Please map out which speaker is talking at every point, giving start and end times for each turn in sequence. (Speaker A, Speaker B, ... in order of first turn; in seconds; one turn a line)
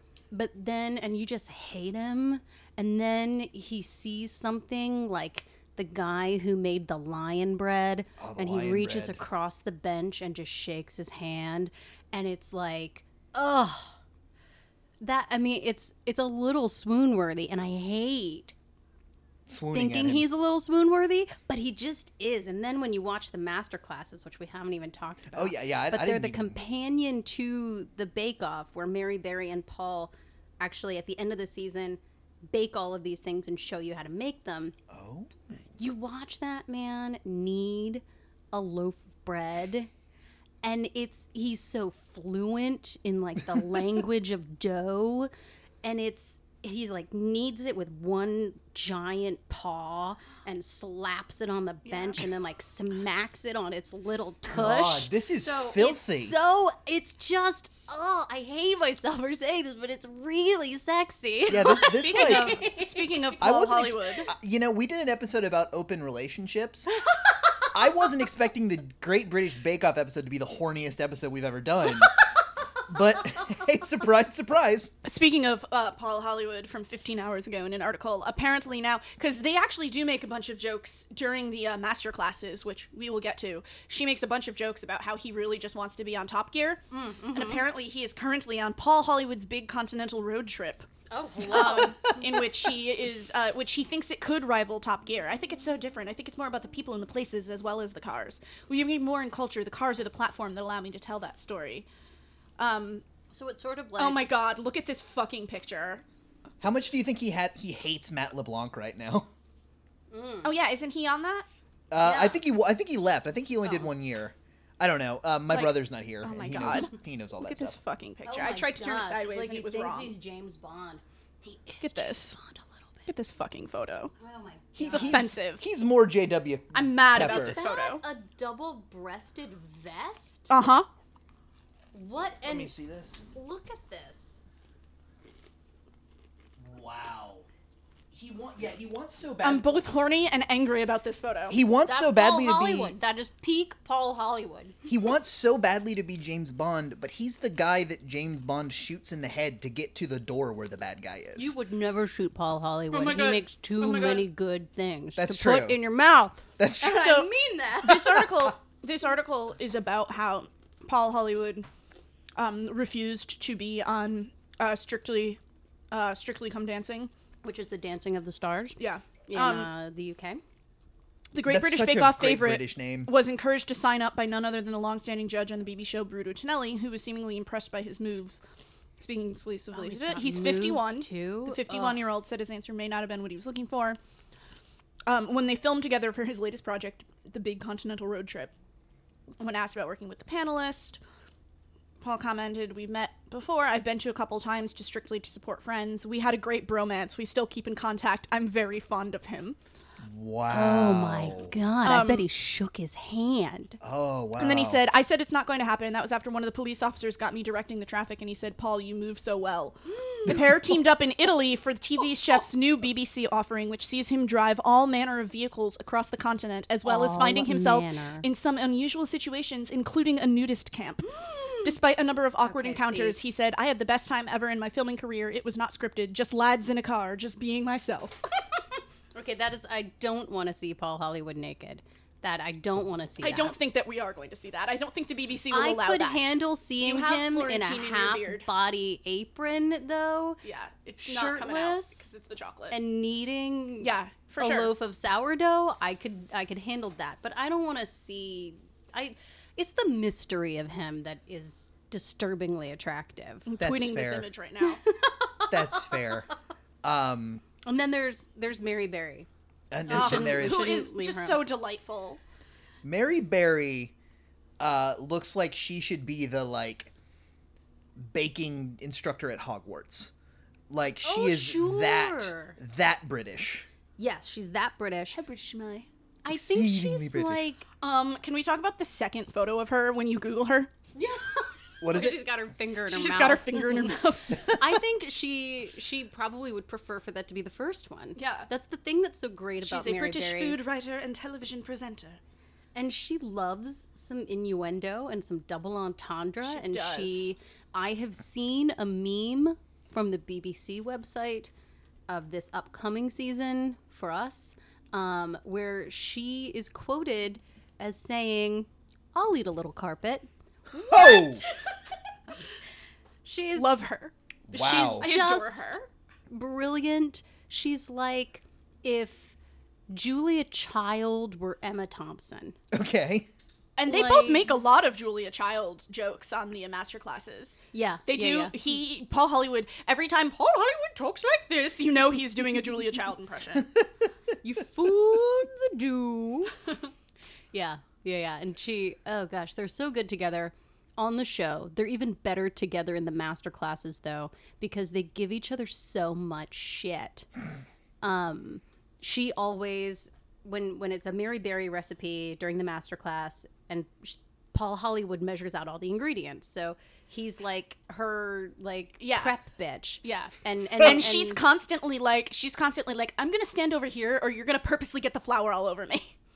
Speaker A: 0.3-14.0
Speaker B: 8.2-9.2
Speaker A: 15.0-18.5
Speaker B: 19.5-20.3
Speaker A: 19.7-34.8
Speaker B: 25.3-26.6
Speaker B: 34.9-35.6
Speaker A: 35.8-39.9
Speaker A: 40.6-45.3
Speaker A: 45.8-55.1
Speaker C: 51.9-52.2
Speaker B: 54.5-56.4
Speaker C: 55.3-55.8
Speaker A: 55.8-63.3
Speaker B: 61.5-62.6
Speaker C: 61.5-64.3
Speaker B: 63.4-66.9
Speaker B: 67.7-72.3
Speaker B: 72.8-74.9
Speaker C: 75.0-90.9
Speaker A: 86.9-87.7
Speaker A: 91.1-92.3
Speaker C: 91.4-101.9
Speaker C: 102.6-103.0
Speaker A: 103.3-104.3
Speaker C: 104.0-106.0
Speaker B: 106.6-109.3
Speaker A: 110.1-110.5
Speaker C: 110.4-111.5
Speaker B: 111.9-117.8
Speaker A: 112.0-112.4
Speaker C: 115.5-120.2
Speaker A: 118.2-123.1
Speaker C: 121.8-122.4
Speaker C: 123.1-124.1
Speaker A: 124.2-125.3
Speaker B: 124.8-127.6
Speaker C: 124.9-125.7
Speaker C: 126.7-128.0
Speaker A: 127.2-130.5
Speaker C: 130.5-130.9
Speaker A: 131.9-132.7
Speaker B: 132.4-133.2
Speaker A: 133.3-134.4
Speaker B: 136.6-137.5
Speaker B: 138.1-139.8
Speaker C: 139.4-141.6
Speaker B: 141.5-143.0
Speaker A: 141.9-144.8
Speaker B: 144.9-151.6
Speaker A: 151.4-158.3
Speaker C: 152.9-154.3
Speaker B: 155.2-155.8
Speaker B: 156.6-157.1
Speaker C: 156.8-157.3
Speaker C: 157.8-161.7
Speaker C: 162.4-165.4
Speaker C: 165.9-167.1
Speaker A: 167.4-170.4
Speaker C: 168.8-169.7
Speaker C: 171.3-178.4
Speaker B: 171.5-173.1
Speaker C: 179.0-184.0
Speaker A: 179.7-182.0
Speaker C: 185.1-188.5
Speaker C: 189.4-191.0
Speaker C: 192.0-199.6
Speaker B: 200.0-201.6
Speaker A: 200.5-203.8
Speaker C: 201.8-202.3
Speaker B: 203.8-204.8
Speaker C: 204.4-221.1
Speaker A: 210.0-210.4
Speaker A: 216.8-218.3
Speaker A: 221.1-221.8
Speaker C: 221.6-228.2
Speaker A: 222.4-223.2
Speaker A: 229.2-233.6
Speaker C: 233.2-238.5
Speaker A: 235.5-240.4
Speaker C: 240.4-242.8
Speaker A: 241.0-242.1
Speaker A: 242.7-253.5
Speaker C: 243.8-244.7
Speaker C: 253.5-254.8
Speaker B: 253.6-254.3
Speaker A: 254.9-256.1
Speaker B: 255.5-256.3
Speaker B: 256.8-257.4
Speaker A: 257.6-259.3
Speaker B: 259.7-260.8
Speaker A: 259.9-261.5
Speaker C: 259.9-262.2
Speaker B: 262.8-263.9
Speaker B: 264.6-266.9
Speaker B: 268.0-270.1
Speaker B: 270.7-273.7
Speaker A: 271.0-272.6
Speaker A: 274.0-275.2
Speaker C: 275.1-275.9
Speaker A: 276.2-277.7
Speaker B: 276.3-277.5
Speaker C: 277.8-280.7
Speaker A: 280.9-290.6
Speaker B: 281.8-282.2
Speaker C: 282.9-284.5
Speaker C: 288.2-288.5
Speaker C: 289.6-292.2
Speaker A: 292.8-301.5
Speaker C: 296.5-297.3
Speaker A: 302.1-310.3
Speaker A: 310.8-311.4
Speaker B: 310.9-311.4
Speaker A: 313.2-313.8
Speaker C: 313.6-315.9
Speaker B: 314.5-315.1
Speaker A: 315.0-315.7
Speaker A: 316.3-319.4
Speaker A: 319.9-322.6
Speaker B: 322.7-323.3
Speaker C: 323.8-333.7
Speaker A: 323.9-324.5
Speaker A: 327.7-328.6
Speaker A: 334.4-336.6
Speaker A: 337.5-347.3
Speaker A: 348.0-361.4
Speaker C: 359.0-359.4
Speaker C: 360.0-366.1